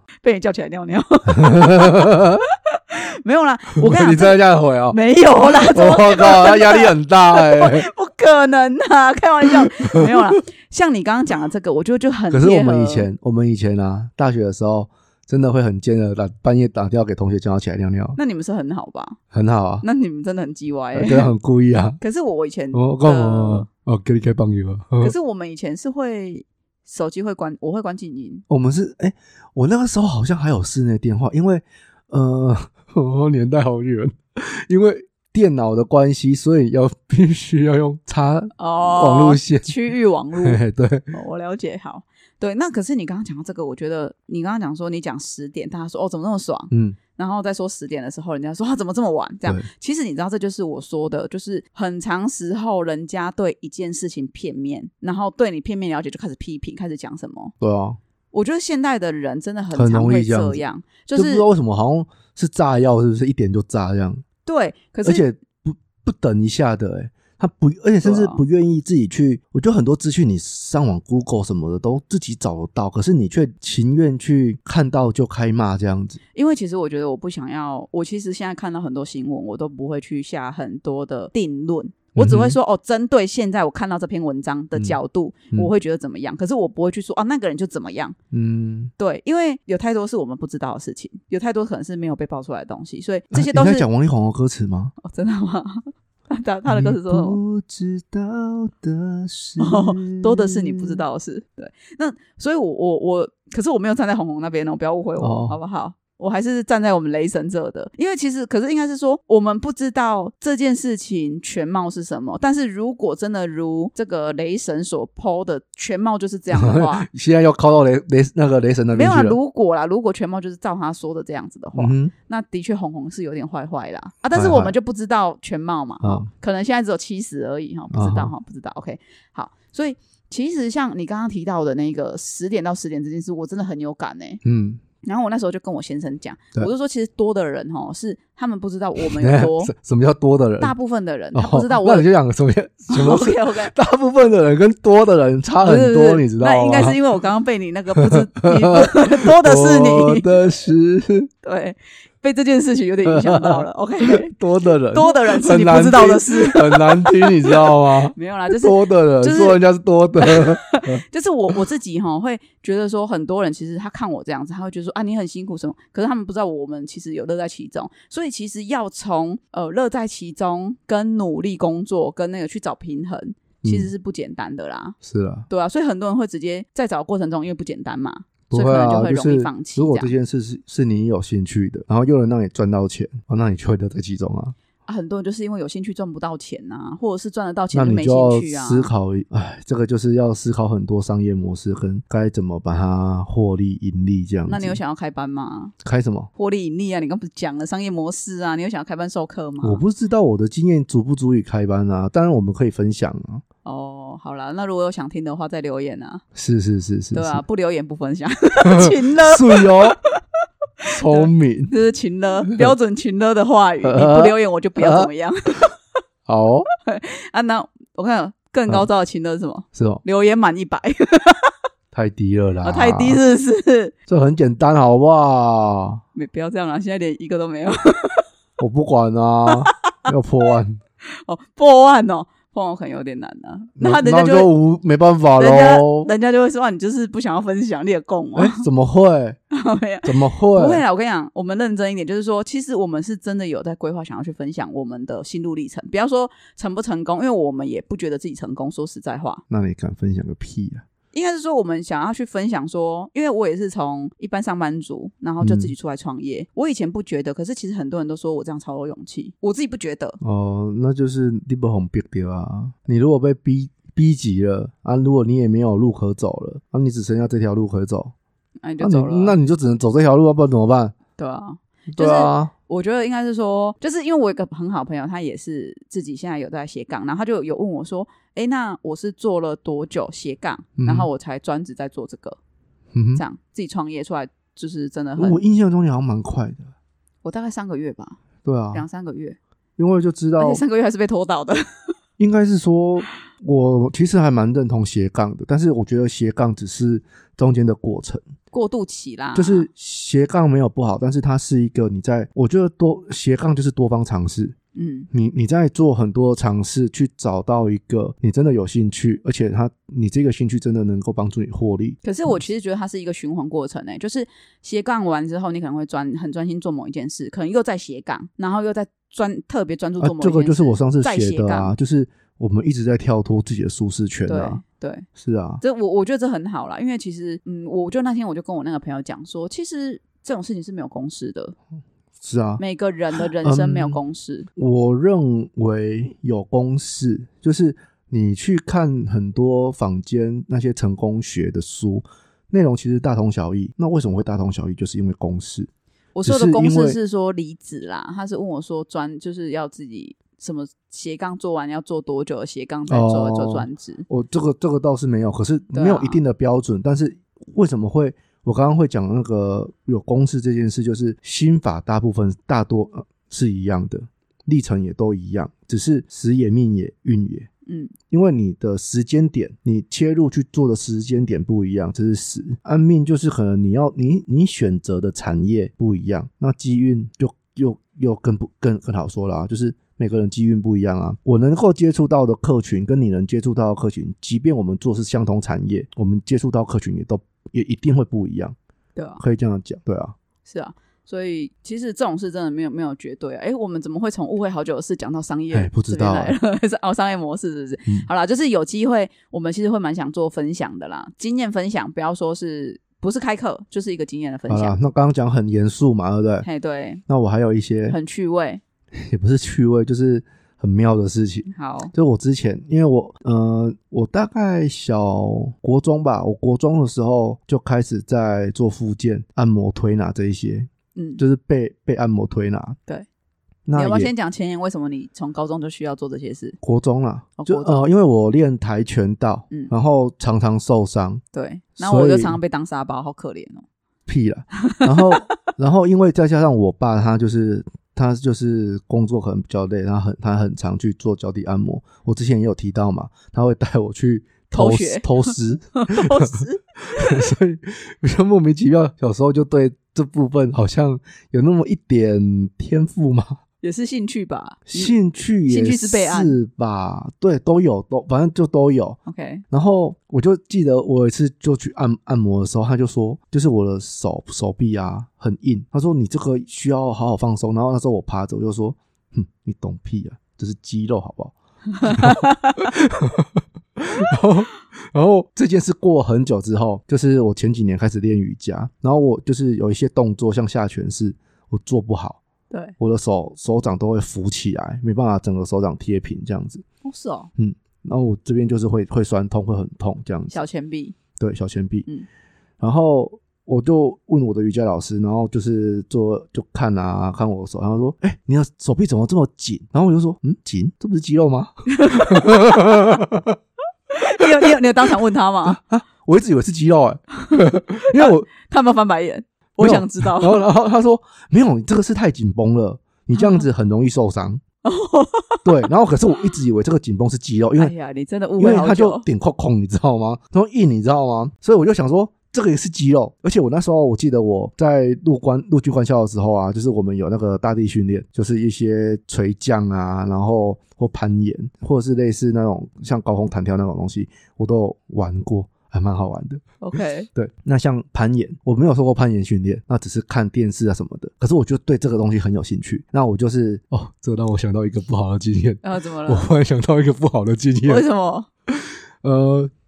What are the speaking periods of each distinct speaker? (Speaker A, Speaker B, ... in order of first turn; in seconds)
Speaker A: 0.2-13.1, 18.1-19.2, 19.8-21.3, 22.0-23.7, 25.0-28.4, 38.6-40.6, 41.1-57.5, 58.3-61.4, 64.5-65.2, 68.0-68.4, 76.3-88.2, 89.0-93.9, 95.0-97.4, 99.6-117.1, 118.9-134.4, 135.0-139.7, 140.6-142.1, 142.9-143.7, 145.6-150.4, 151.4-154.3, 154.9-159.6, 160.2-175.0, 175.5-180.1, 184.8-188.9, 194.5-195.7, 196.3-199.8, 203.6-206.2, 207.1-210.2, 210.8-215.8, 216.8-221.5, 222.6-223.9, 226.1-228.2, 231.2-234.5, 235.4-238.6, 239.5-249.4, 251.1-260.2, 268.6-269.4, 271.2-282.4, 283.1-285.4, 287.2-288.2, 288.7-289.4, 290.4-291.9, 298.5-299.7, 304.7-305.1, 312.0-321.7, 324.3-325.1, 325.6-331.6, 332.6-334.5, 346.1-354.1, 355.7-356.2, 367.6-367.9, 388.9-389.2, 390.4-404.8, 406.4-407.0, 407.9-408.6, 411.5-411.9, 420.9-421.2, 423.8-426.6, 427.4-427.9, 431.3-433.6, 434.6-435.3, 444.5-447.3, 453.6-454.9, 455.5-456.4, 459.1-459.4, 471.7-472.6, 486.8-487.3, 490.3-490.9, 501.7-502.8, 503.9-505.6, 507.2-510.4, 513.1-513.5, 514.6-515.7, 517.6-519.0, 536.6-537.1, 545.6-546.3, 547.6-548.3
Speaker B: 1.3-2.4, 3.8-7.9, 9.6-10.1, 12.3-18.2, 19.3-19.8, 20.9-22.0, 22.7-25.1, 28.5-39.7, 40.4-41.1, 46.7-47.0, 57.6-58.0, 59.7-60.6, 61.1-64.2, 65.0-76.2, 82.2-82.6, 88.3-88.9, 93.3-94.9, 96.7-101.0, 105.2-105.6, 116.5-119.4, 121.8-122.1, 124.3-124.7, 126.0-126.3, 127.9-128.3, 134.4-134.8, 139.0-140.7, 141.3-147.0, 147.9-151.3, 153.1-161.0, 173.6-173.9, 175.0-175.5, 178.5-184.5, 187.7-194.8, 195.8-196.3, 199.6-203.4, 206.3-207.4, 208.6-210.0, 210.8-211.7, 212.5-212.7, 213.8-215.1, 216.2-216.7, 219.7-220.0, 221.9-223.2, 224.1-226.0, 228.6-230.8, 233.8-236.1, 238.3-239.4, 240.0-240.8, 249.5-250.8, 255.4-255.7, 260.2-268.1, 268.8-270.9, 271.9-272.5, 280.8-281.1, 282.9-283.2, 285.2-286.7, 288.4-288.8, 289.8-290.6, 292.2-298.2, 299.3-304.5, 305.1-312.4, 320.0-324.6, 325.1-325.6, 332.2-332.6, 333.4-334.0, 334.6-345.7, 346.2-347.0, 352.9-367.5, 368.1-388.5, 389.2-390.1, 395.5-396.4, 404.5-406.5, 407.1-408.0, 408.9-422.8, 423.7-424.1, 426.6-431.2, 431.8-432.4, 434.1-453.4, 454.7-459.0, 459.5-482.2, 482.8-486.6, 487.4-490.4, 491.2-491.9, 492.6-503.4, 505.4-508.3, 509.6-514.4, 515.4-517.7, 518.4-536.4, 537.1-547.9, 548.5-549.5